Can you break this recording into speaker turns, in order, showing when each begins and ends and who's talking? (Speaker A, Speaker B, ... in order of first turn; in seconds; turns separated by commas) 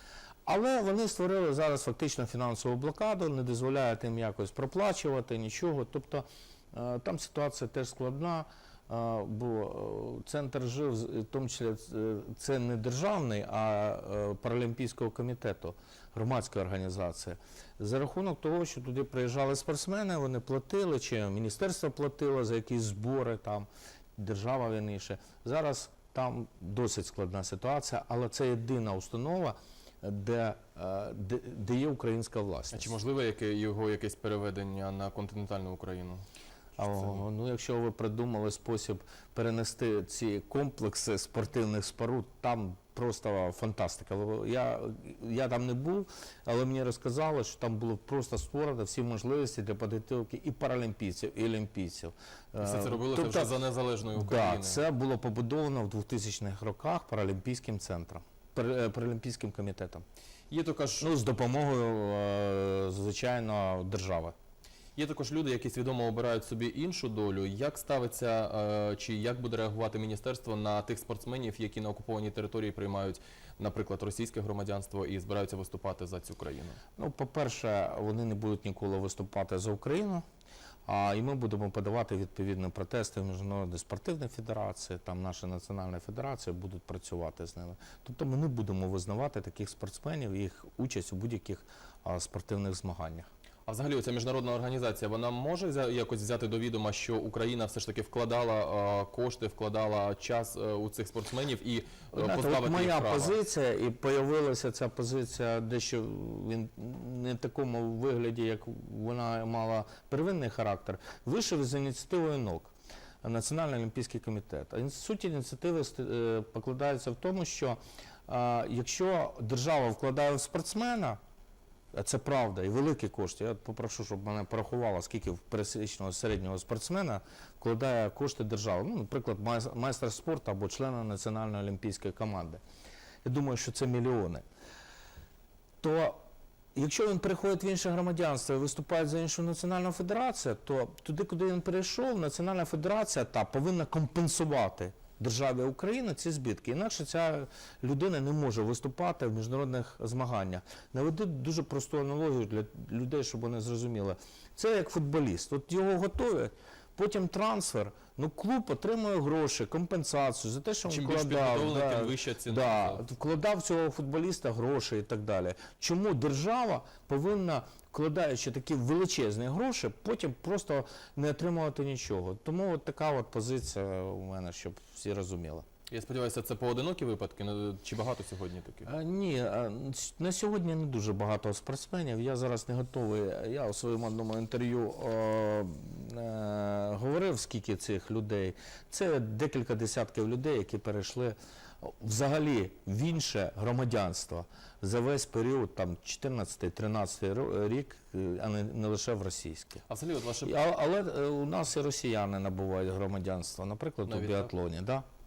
Speaker A: 0.5-33.0, Speaker B: 32.7-36.2, Speaker A: 36.8-53.5, Speaker B: 52.6-54.8, Speaker A: 54.1-60.0, Speaker B: 60.5-61.1, Speaker A: 61.0-64.3, Speaker B: 65.0-76.8, Speaker A: 77.0-80.2, Speaker A: 80.9-93.3, Speaker B: 93.7-103.3, Speaker A: 102.1-112.7, Speaker A: 113.2-121.2, Speaker A: 121.9-132.6, Speaker A: 133.2-134.4, Speaker A: 135.8-136.2, Speaker A: 136.8-175.6, Speaker B: 160.9-163.1, Speaker B: 175.9-178.9, Speaker A: 178.8-199.8, Speaker B: 199.9-200.6, Speaker A: 200.4-205.1, Speaker B: 204.1-204.5